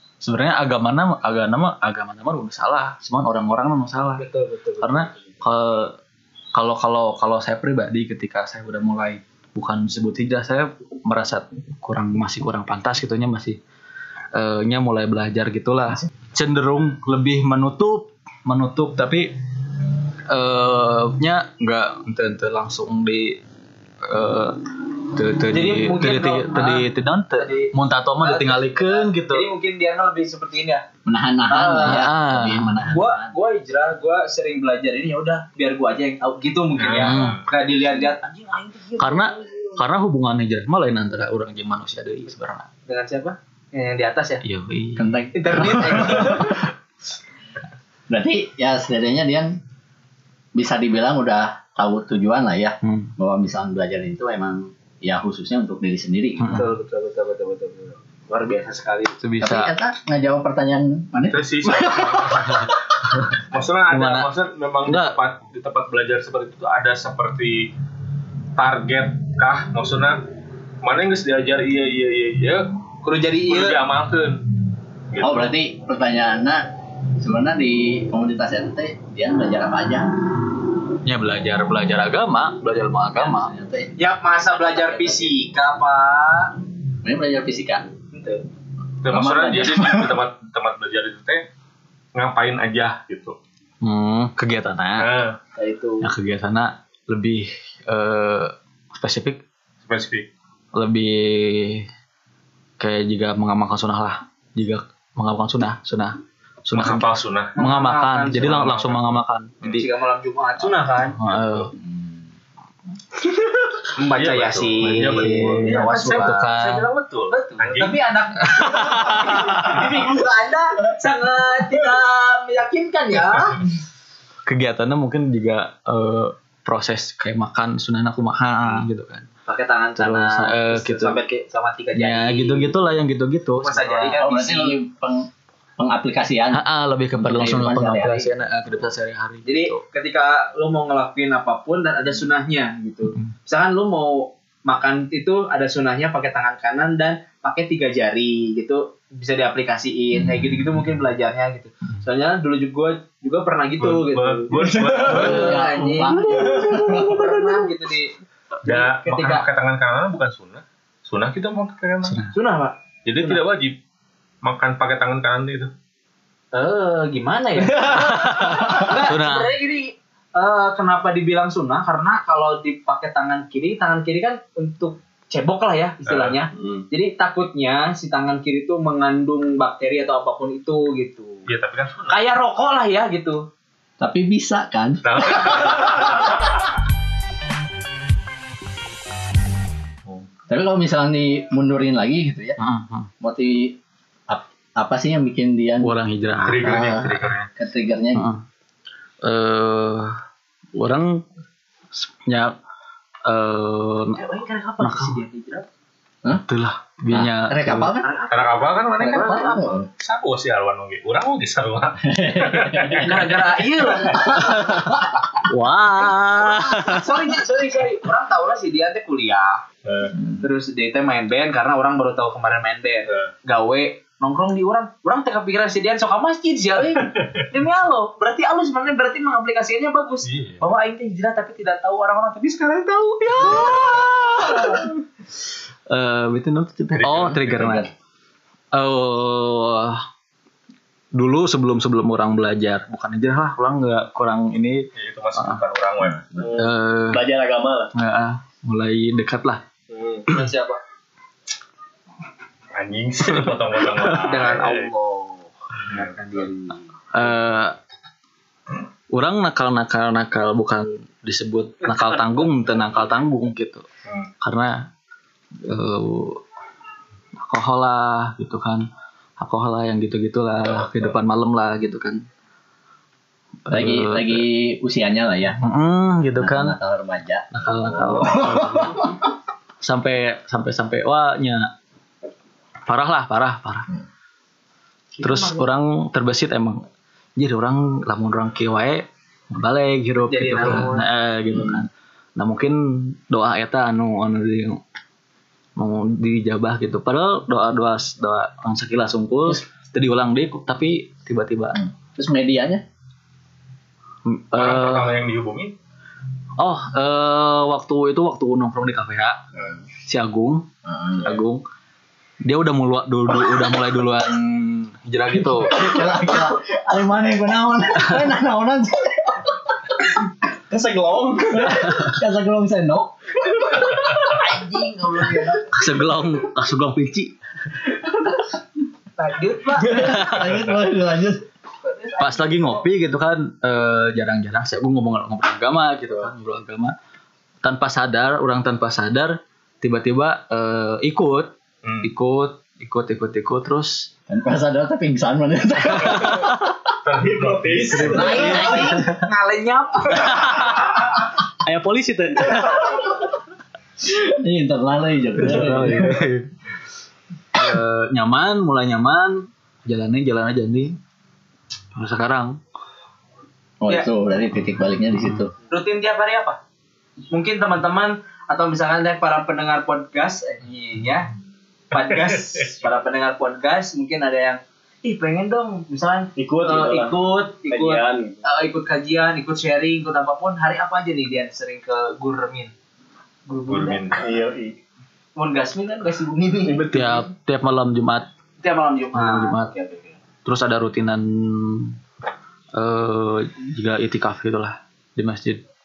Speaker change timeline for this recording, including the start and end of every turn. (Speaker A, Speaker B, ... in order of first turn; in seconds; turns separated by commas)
Speaker A: 0.2-4.2, Speaker B: 4.2-5.3, Speaker A: 4.8-6.0, Speaker A: 6.5-13.6, Speaker A: 14.3-19.3, Speaker A: 20.3-23.4, Speaker A: 24.0-29.5, Speaker B: 25.5-30.9, Speaker C: 31.0-33.3, Speaker B: 31.4-32.0, Speaker A: 31.8-32.8, Speaker B: 32.9-39.8, Speaker D: 36.8-37.4, Speaker A: 36.9-37.4, Speaker A: 39.0-42.7, Speaker B: 42.9-44.4, Speaker A: 44.4-46.1, Speaker C: 45.0-46.4, Speaker B: 45.3-46.7, Speaker C: 48.1-49.6, Speaker C: 50.5-56.6, Speaker A: 52.8-53.1, Speaker A: 56.4-56.7, Speaker B: 56.5-59.2, Speaker A: 59.2-59.7, Speaker C: 59.4-62.7, Speaker D: 61.3-62.7, Speaker D: 63.3-67.7, Speaker A: 63.9-64.3, Speaker A: 64.8-65.2, Speaker D: 68.6-70.2, Speaker D: 70.8-72.7, Speaker B: 73.0-73.8, Speaker D: 73.4-74.5, Speaker D: 75.1-75.5, Speaker C: 75.2-76.6, Speaker C: 77.2-80.2, Speaker A: 81.0-83.5, Speaker C: 83.1-83.9, Speaker B: 84.0-86.5, Speaker A: 84.5-85.3, Speaker C: 87.0-87.9, Speaker B: 88.1-88.4, Speaker D: 89.0-91.4, Speaker C: 89.1-90.2, Speaker D: 92.1-93.3, Speaker A: 93.8-95.1, Speaker D: 95.0-95.4, Speaker B: 95.5-96.1, Speaker A: 96.0-99.4, Speaker D: 99.8-100.3, Speaker A: 100.7-101.9, Speaker A: 102.8-109.9, Speaker D: 106.7-107.5, Speaker B: 107.5-108.7, Speaker D: 108.4-109.8, Speaker B: 109.7-111.2, Speaker A: 111.1-111.7, Speaker D: 111.2-111.7, Speaker C: 111.7-112.2, Speaker B: 113.9-123.6, Speaker D: 114.1-118.0, Speaker A: 114.8-116.9, Speaker A: 118.4-120.0, Speaker A: 124.5-129.3, Speaker B: 129.4-132.7, Speaker A: 130.0-131.2, Speaker A: 131.9-134.2, Speaker B: 133.6-134.8, Speaker C: 134.2-138.5, Speaker A: 136.5-139.8, Speaker B: 139.4-159.4, Speaker D: 153.8-155.6, Speaker C: 154.6-157.4, Speaker D: 158.6-162.2, Speaker A: 162.0-162.3, Speaker B: 162.3-163.4, Speaker D: 163.0-163.8, Speaker D: 164.4-165.7, Speaker B: 166.5-181.4, Speaker A: 167.8-169.5, Speaker D: 176.1-176.4, Speaker D: 181.5-182.2, Speaker B: 182.1-183.4, Speaker C: 184.0-186.3, Speaker D: 185.0-186.2, Speaker C: 190.5-192.6, Speaker A: 192.6-193.1, Speaker C: 193.2-193.8, Speaker C: 194.3-195.9, Speaker A: 195.8-196.8, Speaker D: 196.4-197.5, Speaker C: 196.6-198.3, Speaker A: 198.1-198.4, Speaker A: 199.2-200.2, Speaker A: 200.7-201.2, Speaker A: 201.9-202.5, Speaker A: 203.2-204.2, Speaker B: 204.1-205.7, Speaker A: 204.8-205.2, Speaker A: 206.4-208.0, Speaker C: 207.1-208.1, Speaker B: 208.0-209.8, Speaker D: 208.3-213.5, Speaker C: 209.0-209.9, Speaker C: 212.1-213.3, Speaker B: 212.9-214.9, Speaker A: 214.5-214.9, Speaker A: 215.4-217.3, Speaker B: 216.4-219.6, Speaker D: 219.8-220.1, Speaker B: 220.4-234.9, Speaker D: 230.2-230.6, Speaker A: 233.4-234.9, Speaker A: 235.9-237.9, Speaker D: 236.9-237.8, Speaker C: 237.2-237.9, Speaker A: 238.7-240.0, Speaker A: 241.1-247.3, Speaker D: 244.9-246.3, Speaker E: 246.3-247.9, Speaker A: 247.9-249.6, Speaker E: 249.9-250.3, Speaker B: 250.3-250.8, Speaker D: 252.7-254.9, Speaker B: 254.1-256.9, Speaker A: 257.1-257.8, Speaker A: 259.1-263.9, Speaker D: 264.1-264.3, Speaker A: 264.4-264.9, Speaker A: 265.6-266.4, Speaker A: 267.4-268.9, Speaker A: 269.4-272.2, Speaker D: 270.6-271.1, Speaker A: 273.6-274.5, Speaker C: 273.7-275.6, Speaker A: 275.6-276.8, Speaker C: 276.4-279.1, Speaker A: 277.5-279.1, Speaker A: 279.8-281.7, Speaker A: 282.9-283.9, Speaker B: 285.2-285.7, Speaker A: 285.2-286.8, Speaker A: 287.4-294.8, Speaker B: 290.3-291.1, Speaker A: 295.8-301.9, Speaker C: 302.1-302.8, Speaker A: 304.2-305.2, Speaker D: 304.5-305.7, Speaker A: 306.6-309.4, Speaker A: 310.0-310.7, Speaker C: 310.9-311.2, Speaker A: 311.2-311.6, Speaker A: 312.4-316.2, Speaker C: 315.3-320.2, Speaker A: 318.0-318.3, Speaker C: 320.7-325.7, Speaker B: 324.4-325.5, Speaker A: 325.7-327.3, Speaker B: 329.2-330.2, Speaker C: 329.8-331.4, Speaker A: 329.8-330.7, Speaker B: 331.9-332.8, Speaker A: 332.1-336.9, Speaker A: 337.6-341.5, Speaker D: 341.8-342.1, Speaker A: 342.0-344.1, Speaker C: 344.3-346.7, Speaker A: 346.1-346.5, Speaker D: 347.0-348.6, Speaker E: 347.3-348.1, Speaker B: 347.9-350.5, Speaker A: 348.0-349.2, Speaker C: 348.5-348.8, Speaker A: 350.2-350.8, Speaker A: 351.6-352.9, Speaker C: 354.0-356.3, Speaker A: 355.4-356.5, Speaker A: 357.5-361.0, Speaker A: 361.9-362.6, Speaker C: 363.8-365.5, Speaker B: 365.7-366.6, Speaker B: 367.3-371.3, Speaker B: 371.9-382.7, Speaker D: 371.9-372.8, Speaker E: 376.4-378.4, Speaker B: 383.5-384.1, Speaker D: 383.7-384.2, Speaker E: 384.1-384.8, Speaker B: 385.4-387.2, Speaker A: 386.8-388.3, Speaker B: 388.6-390.2, Speaker A: 389.1-389.7, Speaker A: 390.4-392.0, Speaker A: 392.7-395.6